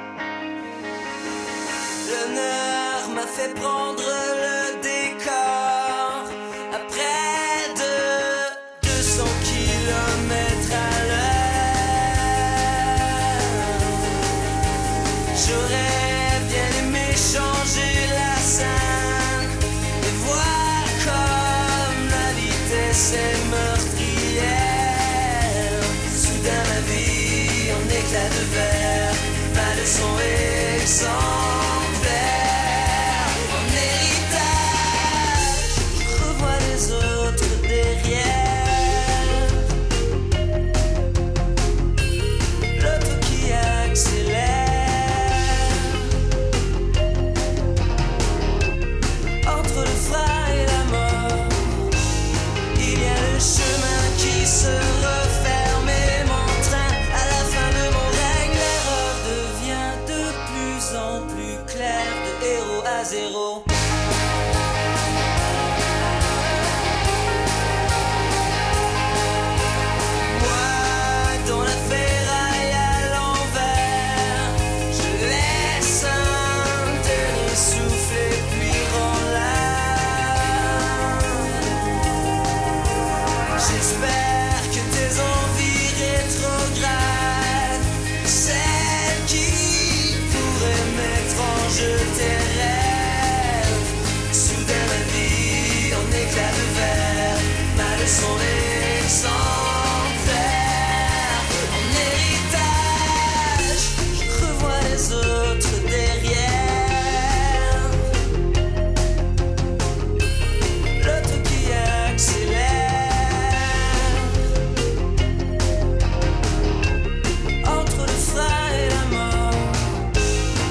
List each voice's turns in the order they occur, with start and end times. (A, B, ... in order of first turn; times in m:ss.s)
0:02.0-0:14.4 A
0:15.3-0:39.6 A
0:42.7-0:46.2 A
0:49.4-0:52.0 A
0:52.7-1:03.7 A
1:06.0-1:06.9 A
1:10.1-1:21.9 A
1:23.6-1:48.1 A
1:50.9-1:54.5 A
1:57.6-2:00.1 A